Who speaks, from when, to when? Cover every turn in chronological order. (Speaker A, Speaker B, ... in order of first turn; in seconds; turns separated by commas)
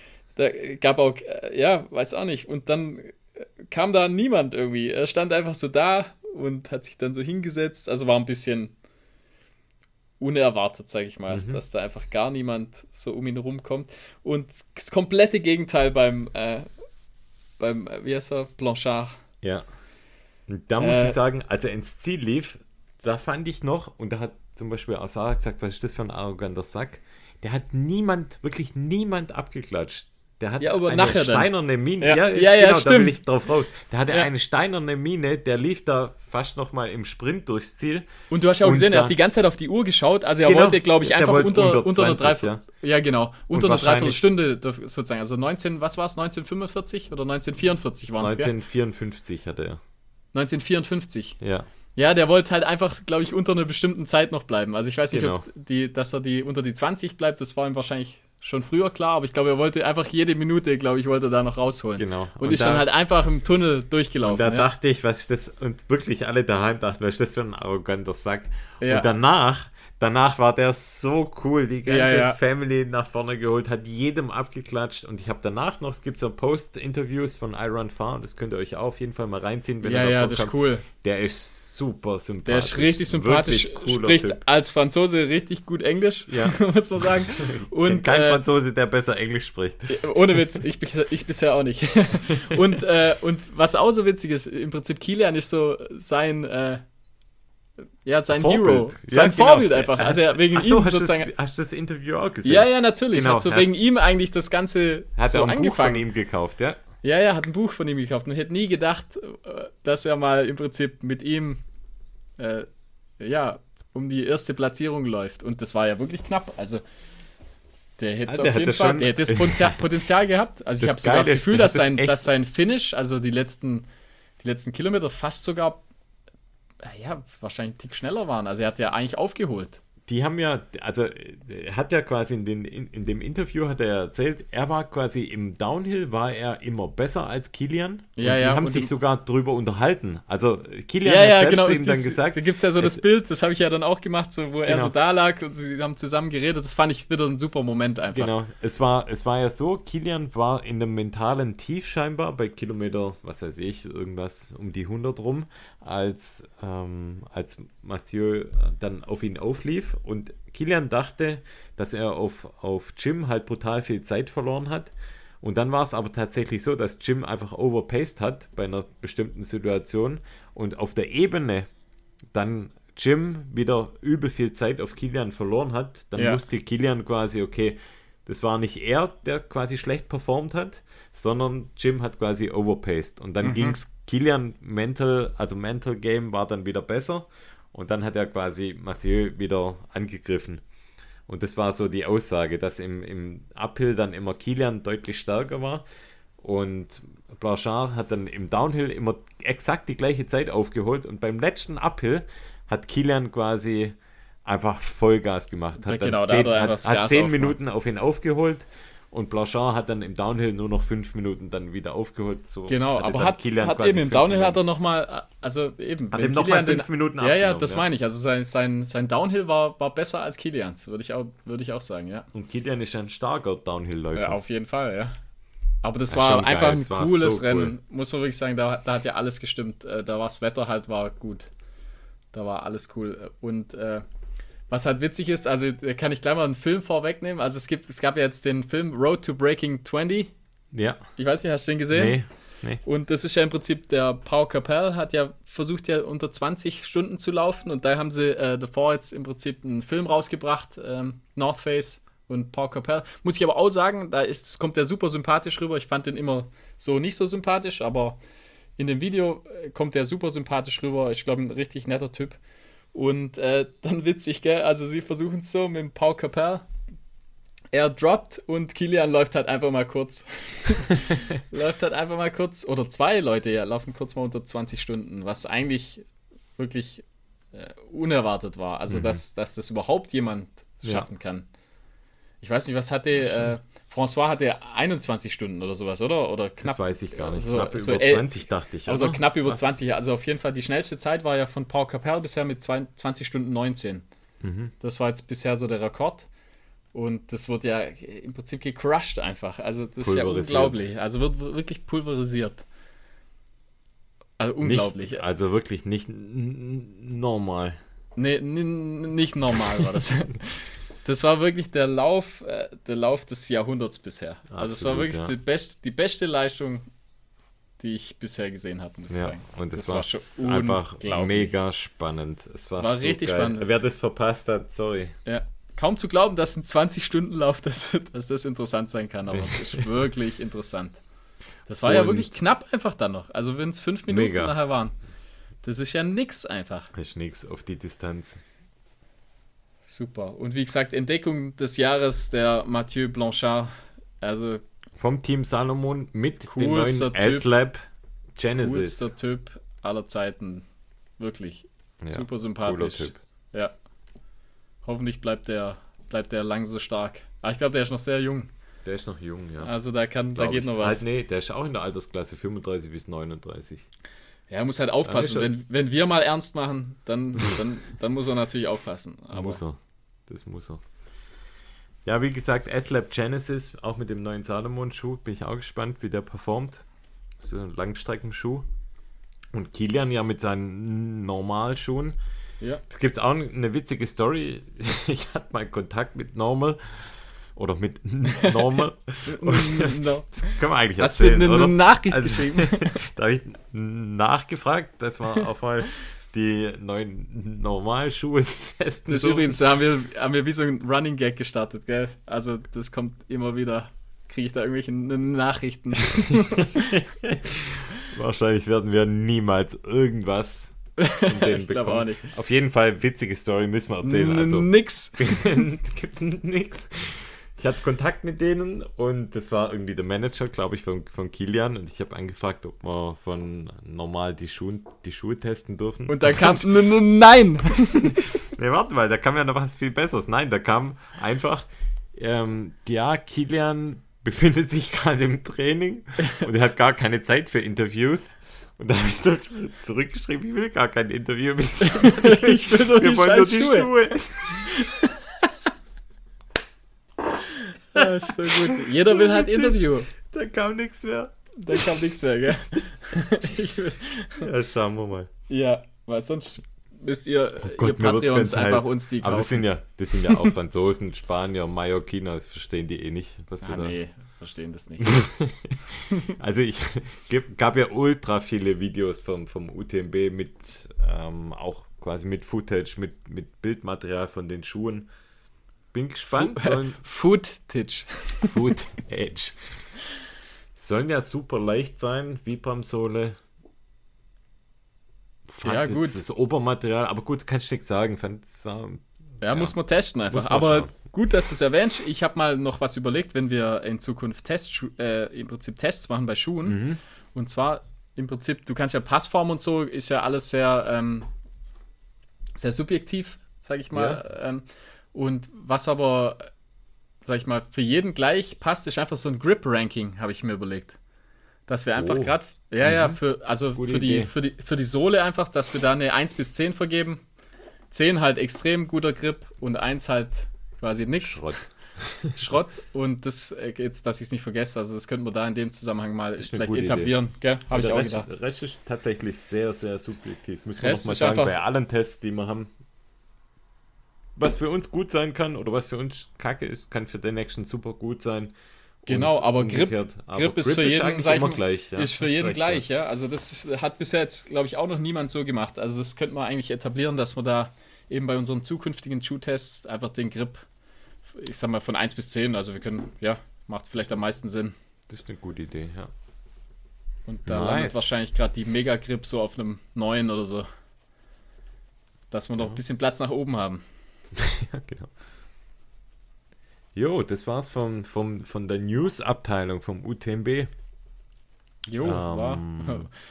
Speaker A: 0.4-8.7, Speaker A: 10.2-16.7, Speaker B: 11.3-11.6, Speaker A: 17.6-19.2, Speaker B: 19.4-19.7, Speaker B: 20.5-38.1, Speaker A: 20.8-21.2, Speaker A: 30.6-31.5, Speaker A: 32.0-33.2, Speaker A: 38.3-48.5, Speaker B: 38.6-39.2, Speaker B: 40.4-42.6, Speaker B: 43.5-44.2, Speaker B: 48.2-49.8, Speaker A: 50.3-51.4, Speaker B: 51.4-51.7, Speaker A: 52.0-64.7, Speaker B: 55.1-55.5, Speaker B: 62.0-62.9, Speaker B: 64.2-84.4, Speaker A: 68.8-69.1, Speaker A: 71.9-72.4, Speaker A: 79.8-80.9, Speaker A: 82.5-88.4, Speaker B: 86.3-90.0, Speaker A: 89.9-96.8, Speaker B: 92.4-92.7, Speaker A: 98.0-101.3, Speaker B: 98.3-103.7, Speaker A: 102.5-106.0, Speaker B: 105.2-106.8, Speaker A: 107.0-111.6, Speaker A: 112.4-112.7, Speaker A: 113.2-116.8, Speaker A: 118.0-123.9, Speaker B: 118.3-119.8, Speaker B: 120.8-122.3, Speaker A: 124.4-125.8, Speaker A: 126.8-129.8, Speaker B: 130.1-143.0, Speaker A: 138.2-138.9, Speaker A: 141.0-148.3, Speaker B: 144.6-144.9, Speaker B: 148.1-171.7, Speaker B: 172.3-190.6, Speaker A: 176.2-176.4, Speaker A: 183.4-183.8, Speaker B: 191.3-195.8, Speaker B: 196.4-214.6, Speaker A: 205.8-207.6, Speaker A: 212.7-222.3, Speaker B: 216.1-217.8, Speaker B: 222.3-224.4, Speaker A: 224.2-225.1, Speaker A: 225.8-231.5, Speaker B: 226.1-227.8, Speaker A: 232.3-234.0, Speaker A: 234.7-240.3, Speaker B: 240.7-241.0, Speaker A: 241.2-242.2, Speaker B: 241.9-242.8, Speaker A: 242.8-258.2, Speaker A: 258.8-262.4, Speaker A: 262.9-266.7, Speaker A: 267.7-276.1, Speaker A: 276.6-281.5, Speaker B: 278.9-279.2, Speaker A: 282.4-294.1, Speaker B: 286.6-289.6, Speaker B: 294.4-294.7, Speaker A: 294.8-296.3, Speaker A: 296.9-302.6, Speaker B: 300.0-300.8, Speaker A: 304.4-305.2, Speaker B: 304.6-307.8, Speaker A: 308.2-316.9, Speaker B: 314.5-315.4, Speaker A: 317.8-321.6, Speaker B: 319.1-325.2, Speaker A: 322.8-323.7, Speaker A: 325.2-331.0, Speaker B: 329.3-329.9, Speaker A: 331.7-335.0, Speaker B: 331.9-332.3, Speaker B: 334.1-334.5, Speaker A: 335.6-336.9, Speaker B: 336.9-338.4, Speaker A: 339.9-344.6, Speaker B: 345.0-347.8, Speaker A: 346.5-347.5, Speaker B: 348.4-349.1, Speaker A: 348.6-350.6, Speaker A: 351.2-353.7, Speaker B: 352.0-353.2, Speaker A: 354.8-358.5, Speaker B: 358.9-359.7, Speaker A: 359.6-361.0, Speaker B: 360.4-363.9, Speaker A: 364.5-369.6, Speaker B: 365.0-365.5, Speaker B: 369.3-370.8, Speaker B: 372.1-376.9, Speaker B: 377.4-378.6, Speaker B: 379.5-382.2, Speaker B: 382.9-399.6, Speaker A: 388.4-393.0, Speaker A: 399.1-407.0, Speaker B: 406.1-426.8, Speaker A: 411.0-412.3, Speaker A: 414.0-415.5, Speaker A: 426.1-428.4, Speaker B: 427.7-444.8, Speaker A: 441.8-443.9, Speaker A: 444.4-445.5, Speaker A: 447.4-450.1, Speaker B: 447.9-452.0, Speaker A: 451.6-454.5, Speaker B: 454.4-455.3, Speaker A: 455.5-460.5, Speaker B: 457.6-464.0, Speaker A: 463.6-465.1, Speaker B: 465.0-475.1, Speaker B: 475.9-477.0, Speaker A: 476.3-478.6, Speaker B: 478.4-479.8, Speaker B: 480.8-483.4, Speaker B: 485.5-489.8, Speaker A: 485.6-486.2, Speaker A: 489.4-496.8, Speaker B: 490.3-490.9, Speaker B: 496.6-497.0, Speaker A: 497.4-501.3, Speaker A: 502.6-506.5, Speaker B: 503.9-504.2, Speaker A: 507.2-511.0, Speaker A: 511.7-517.2, Speaker B: 512.0-513.2, Speaker B: 513.8-514.3, Speaker A: 517.9-521.5, Speaker B: 521.2-522.4, Speaker A: 522.3-528.3, Speaker B: 526.4-527.1, Speaker B: 527.7-532.7, Speaker A: 530.8-531.5, Speaker B: 534.4-538.5, Speaker B: 539.1-542.8, Speaker A: 539.1-550.7, Speaker A: 551.3-554.7, Speaker B: 555.1-556.1, Speaker A: 557.3-560.7, Speaker B: 557.5-558.1, Speaker A: 562.3-563.8, Speaker B: 564.4-565.1, Speaker B: 567.0-570.7, Speaker A: 571.9-573.1, Speaker B: 572.0-573.1